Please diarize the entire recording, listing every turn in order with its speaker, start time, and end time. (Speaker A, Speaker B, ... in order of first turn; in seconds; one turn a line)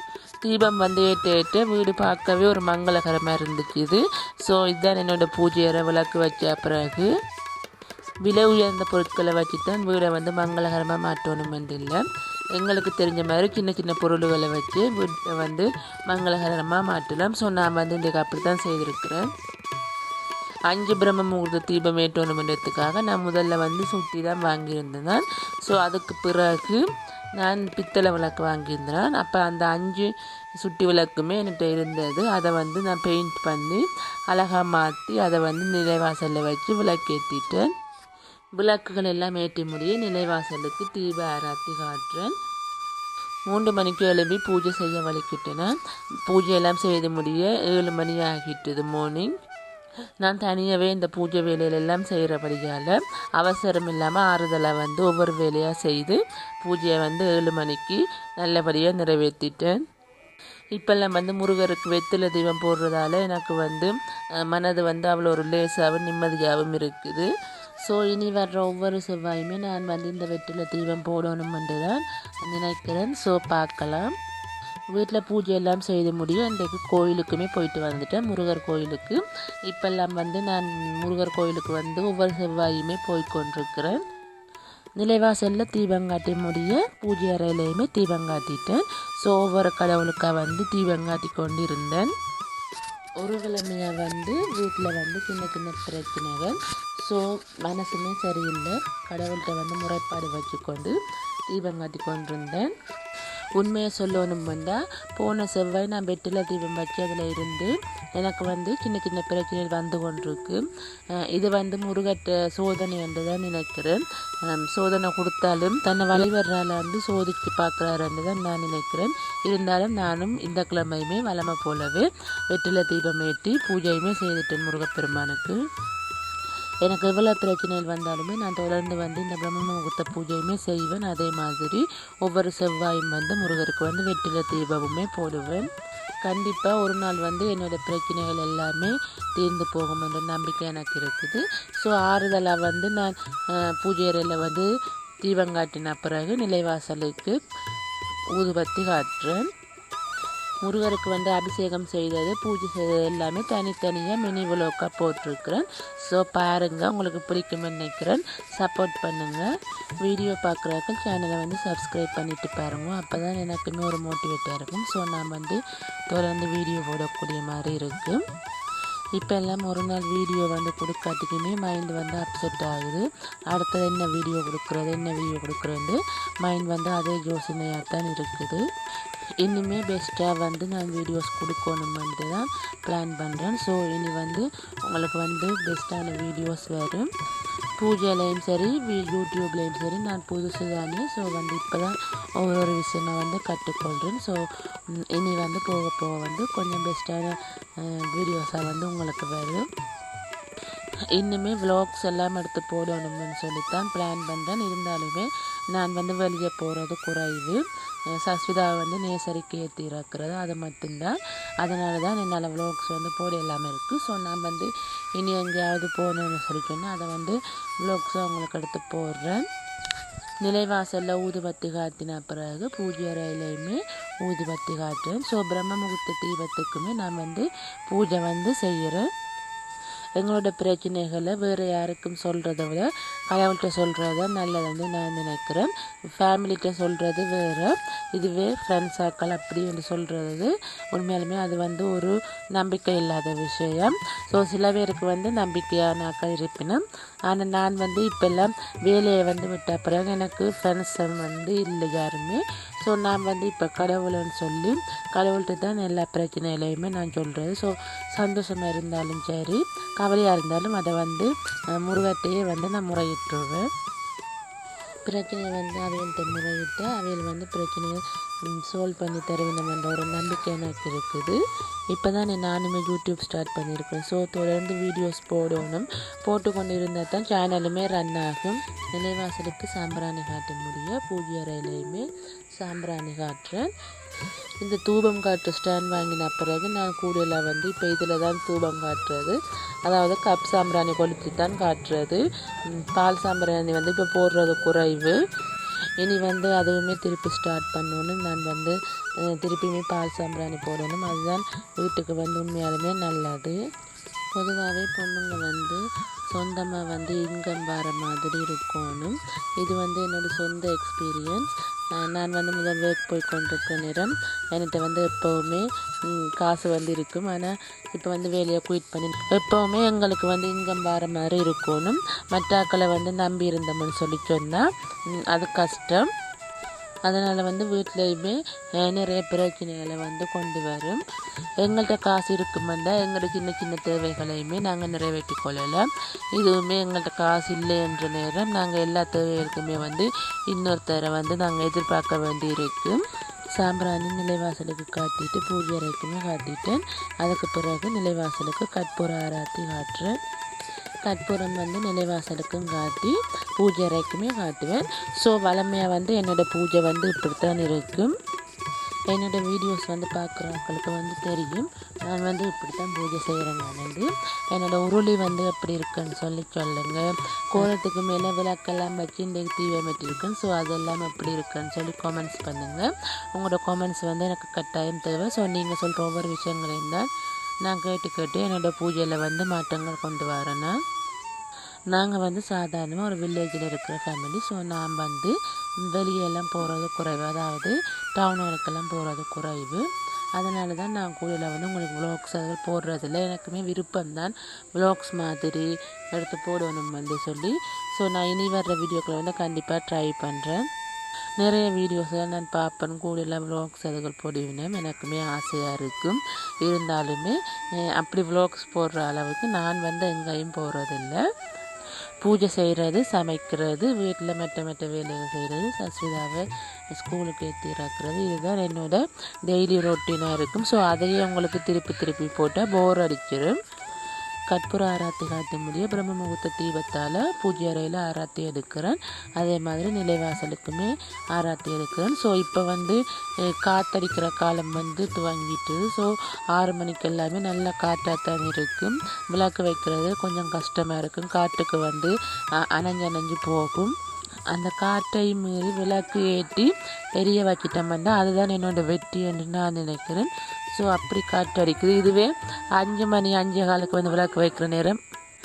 Speaker A: 0.4-7.1
Speaker A: 8.2-12.0
Speaker A: 12.5-19.3
Speaker A: 20.7-26.8
Speaker A: 27.4-37.7
Speaker A: 38.6-42.4
Speaker A: 43.5-45.8
Speaker A: 46.3-49.3
Speaker A: 50.2-59.8
Speaker A: 60.8-67.3
Speaker A: 67.8-74.1
Speaker A: 74.9-84.0
Speaker A: 85.0-92.1
Speaker A: 93.2-100.9
Speaker A: 101.5-102.7
Speaker A: 103.6-110.6
Speaker A: 111.3-125.6
Speaker A: 126.8-135.7
Speaker A: 136.2-144.7
Speaker A: 145.2-147.4
Speaker A: 148.3-149.5
Speaker A: 150.6-159.5
Speaker A: 160.0-168.2
Speaker A: 169.2-178.6
Speaker A: 179.4-187.1
Speaker A: 187.8-194.4
Speaker A: 195.1-199.7
Speaker A: 201.2-207.6
Speaker A: 208.1-219.5
Speaker A: 220.4-229.1
Speaker A: 230.2-263.7
Speaker A: 265.1-271.4
Speaker A: 271.9-283.7
Speaker A: 284.6-295.2
Speaker A: 296.0-303.6
Speaker A: 304.3-305.8
Speaker A: 306.3-324.7
Speaker A: 325.2-326.1
Speaker A: 327.1-331.0
Speaker A: 331.6-343.0
Speaker A: 343.6-350.2
Speaker A: 351.1-358.1
Speaker A: 359.1-367.0
Speaker A: 367.5-377.1
Speaker A: 377.6-380.8
Speaker A: 381.9-385.3
Speaker A: 385.9-389.8
Speaker A: 390.4-400.6
Speaker A: 401.4-407.4
Speaker A: 407.9-411.2
Speaker A: 412.2-423.6
Speaker A: 424.5-442.1
Speaker A: 442.6-443.9
Speaker A: 444.5-455.0